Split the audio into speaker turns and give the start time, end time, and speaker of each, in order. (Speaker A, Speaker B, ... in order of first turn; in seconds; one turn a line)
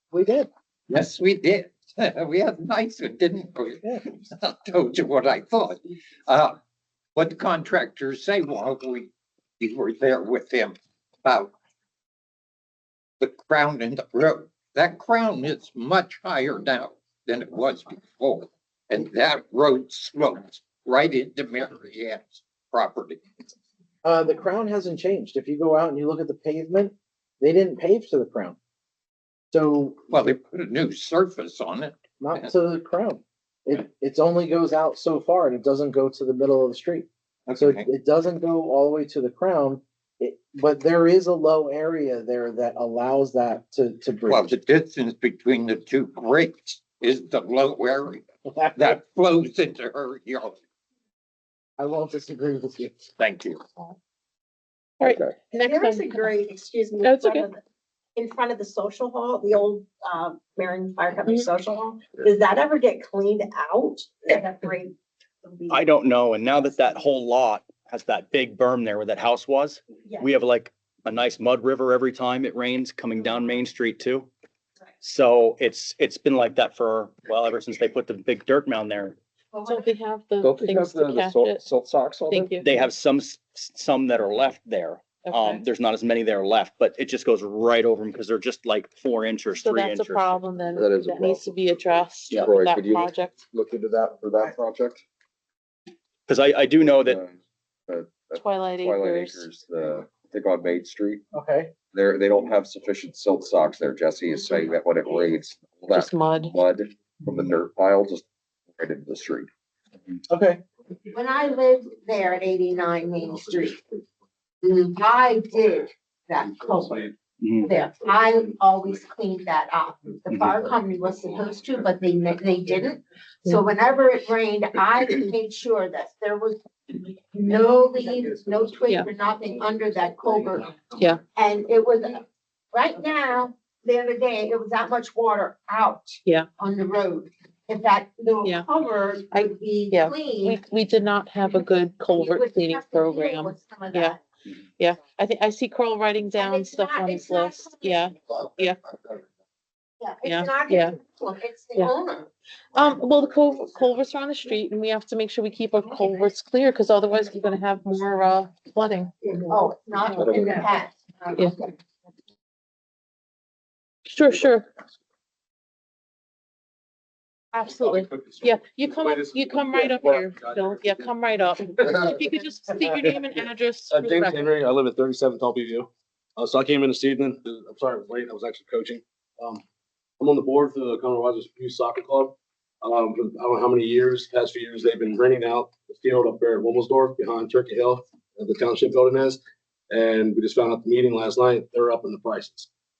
Speaker A: 0.1-0.5
Speaker B: 0.9-6.6
Speaker B: 7.2-11.5
Speaker B: 13.2-23.2
Speaker A: 24.0-28.6
Speaker A: 29.5-30.2
Speaker B: 30.1-32.5
Speaker A: 32.2-44.6
Speaker B: 37.5-37.9
Speaker B: 44.3-50.6
Speaker A: 48.5-49.0
Speaker A: 51.8-52.9
Speaker B: 53.2-53.6
Speaker C: 55.0-56.3
Speaker D: 55.0-55.4
Speaker E: 56.2-57.5
Speaker C: 57.0-57.5
Speaker E: 58.6-59.0
Speaker E: 60.7-61.8
Speaker E: 63.0-63.9
Speaker F: 65.7-74.3
Speaker F: 75.0-79.2
Speaker C: 79.6-81.6
Speaker D: 80.4-82.5
Speaker C: 82.3-82.7
Speaker F: 82.6-90.4
Speaker C: 85.2-85.6
Speaker C: 89.6-93.4
Speaker D: 90.7-95.0
Speaker F: 96.3-97.2
Speaker D: 97.0-101.2
Speaker C: 98.3-99.5
Speaker A: 101.3-101.7
Speaker D: 101.8-109.5
Speaker C: 105.9-106.5
Speaker A: 110.3-110.6
Speaker G: 111.1-113.8
Speaker G: 114.6-130.7
Speaker F: 117.4-117.7
Speaker F: 120.3-120.6
Speaker C: 130.9-131.2
Speaker G: 131.3-140.6
Speaker C: 139.3-144.2
Speaker G: 142.2-144.2
Speaker C: 144.8-148.8
Speaker G: 146.3-148.1
Speaker G: 150.0-152.3
Speaker C: 150.2-151.0
Speaker C: 152.7-159.1
Speaker G: 159.4-161.7
Speaker C: 160.1-160.5
Speaker D: 160.2-160.4
Speaker C: 164.1-164.7
Speaker C: 167.5-174.4
Speaker H: 167.7-171.1
Speaker H: 171.8-172.2
Speaker H: 173.9-179.6
Speaker H: 180.2-189.4
Speaker H: 189.9-192.7